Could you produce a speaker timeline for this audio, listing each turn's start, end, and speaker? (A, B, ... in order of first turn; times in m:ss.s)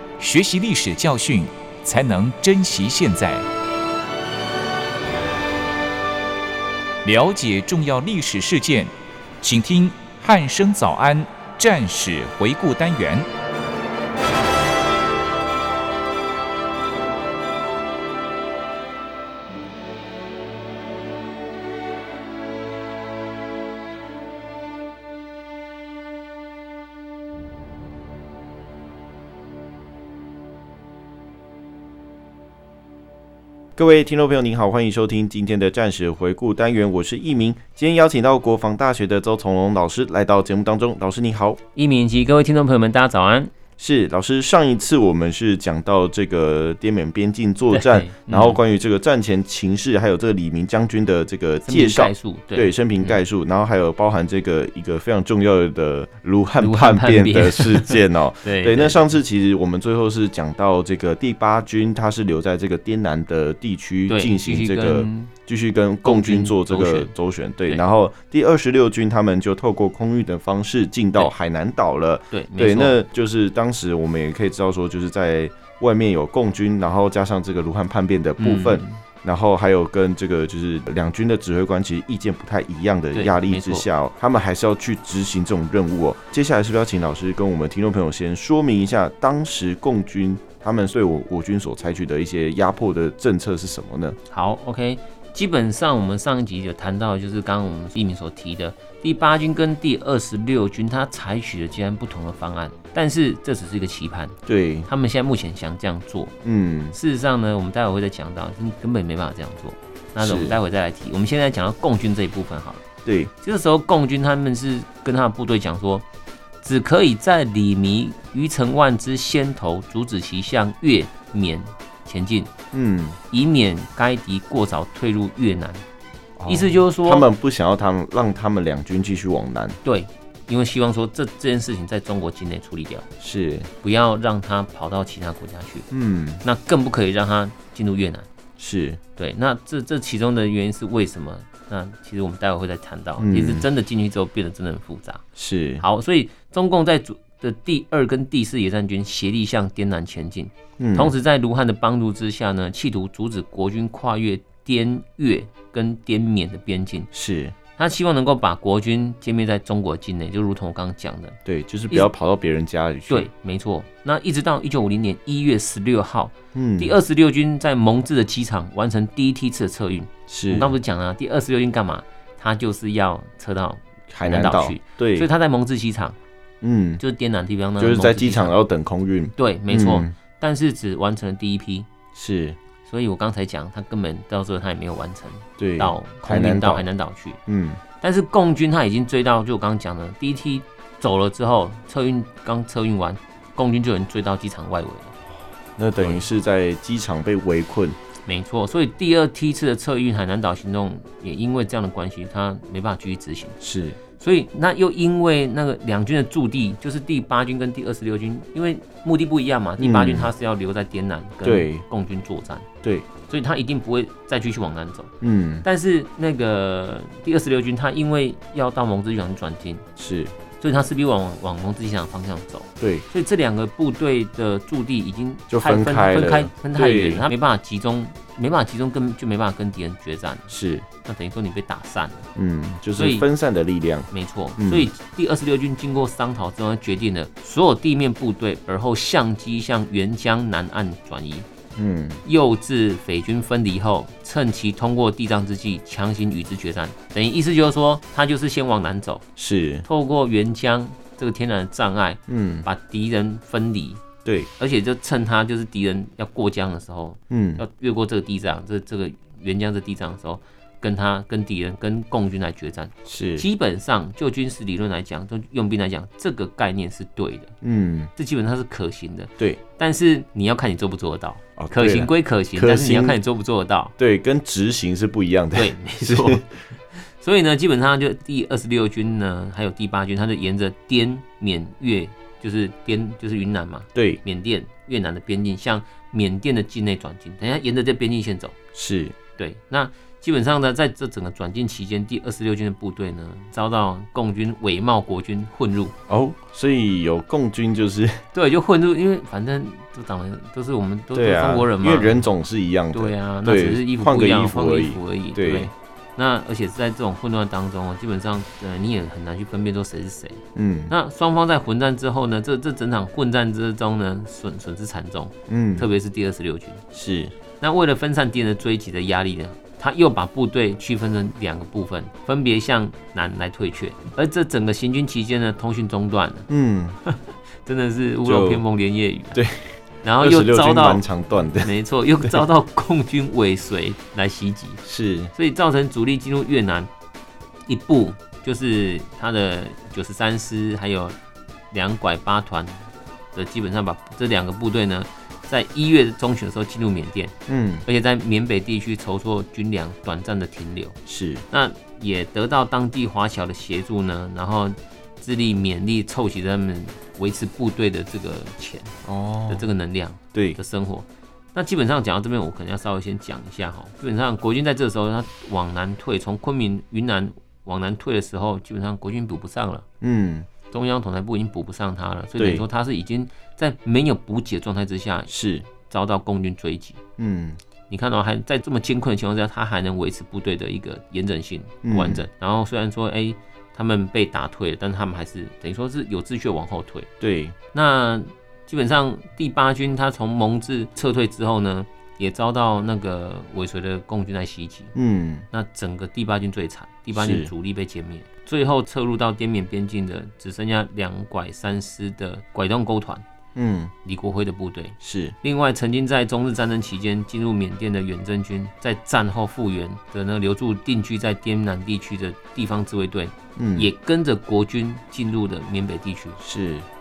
0:00.2-0:03.5 A
0:07.0-0:13.3 A
0:33.8-0:41.6 B
0:41.8-0:43.5 C
0:43.8-1:34.2 B
0:47.7-0:48.6 C
0:51.6-0:53.2 C
0:56.6-0:59.0 C
1:04.1-1:05.3 C
1:06.0-1:07.1 C
1:12.3-1:13.0 C
1:18.4-1:19.0 C
1:23.1-1:23.9 C
1:34.3-1:46.3 C
1:44.5-1:44.9 B
1:46.4-1:47.0 B
1:46.9-1:52.8 C
1:50.2-1:50.6 B
1:53.1-1:53.3 B
1:53.4-1:56.0 C
1:56.6-2:02.5 C
2:02.7-2:03.2 B
2:03.3-2:05.8 C
2:06.4-2:09.8 B
2:06.5-2:07.3 C
2:09.8-2:13.1 C
2:13.2-2:13.7 B
2:13.8-2:15.9 C
2:15.9-2:16.4 B
2:16.4-2:18.3 C
2:18.6-2:19.0 B
2:19.2-2:25.2 C
2:23.2-2:23.7 B
2:25.4-2:25.8 B
2:25.8-2:37.1 C
2:30.8-2:31.2 B
2:37.1-2:37.6 B
2:37.8-2:41.4 C
2:41.5-2:43.3 B
2:43.1-2:56.2 C
2:46.5-2:47.0 B
2:50.3-2:50.7 B
2:54.1-2:55.3 B
2:56.6-2:57.0 B
2:57.0-2:58.6 C
2:57.8-3:00.1 B
2:59.4-3:01.9 C
3:02.2-3:02.6 B
3:02.8-3:07.4 C
3:05.6-3:06.9 B
3:07.5-3:07.8 B
3:08.0-3:15.1 C
3:15.8-3:18.0 B
3:16.0-3:16.3 C
3:18.3-3:23.6 C
3:23.6-3:24.0 B
3:24.2-3:32.7 C
3:29.8-3:30.3 B
3:31.4-3:31.8 B
3:32.8-3:33.1 B
3:33.3-3:35.1 C
3:35.2-3:35.7 B
3:35.6-3:39.8 C
3:40.0-3:40.4 B
3:40.6-3:52.3 C
3:42.8-3:43.0 B
3:45.5-3:47.3 B
3:50.5-3:50.9 B
3:52.4-3:54.9 B
3:53.0-3:53.3 C
3:54.1-4:01.5 C
4:01.8-4:02.2 B
4:02.2-4:09.2 C
4:09.4-4:09.9 B
4:09.9-4:14.0 C
4:12.3-4:12.7 B
4:14.6-4:27.5 C
4:17.3-4:17.6 B
4:23.1-4:23.5 B
4:27.6-4:28.1 B
4:28.2-4:33.9 C
4:31.6-4:33.2 B
4:34.0-4:36.5 B
4:35.6-4:48.6 C
4:44.0-4:44.2 B
4:48.7-4:49.2 B
4:49.4-4:55.9 C
4:56.1-4:58.2 B
4:58.3-5:02.2 C
5:01.1-5:05.7 B
5:02.9-5:16.8 C
5:10.6-5:10.9 B
5:15.5-5:15.9 B
5:16.9-5:17.3 B
5:17.6-5:26.5 C
5:26.5-5:27.0 B
5:27.1-5:29.4 C
5:28.2-5:28.6 B
5:29.3-5:31.7 B
5:30.0-5:31.0 C
5:31.6-5:34.8 C
5:34.8-5:35.3 B
5:35.3-5:36.9 C
5:37.7-5:41.2 C
5:41.7-5:51.0 C
5:47.5-5:47.8 B
5:51.1-5:51.5 B
5:51.5-5:59.0 C
5:59.0-5:59.7 B
5:59.5-6:09.9 C
6:10.0-6:10.5 B
6:10.7-6:17.0 C
6:12.4-6:12.6 B
6:15.3-6:15.7 B
6:17.2-6:17.6 B
6:17.9-6:27.1 C
6:21.8-6:22.3 B
6:27.2-6:27.6 B
6:27.7-6:34.9 C
6:35.0-6:35.5 B
6:35.5-6:43.2 C
6:37.1-6:37.5 B
6:43.6-6:43.9 B
6:44.0-6:56.4 C
6:45.0-6:45.4 B
6:53.6-6:53.9 B
6:56.4-6:56.9 B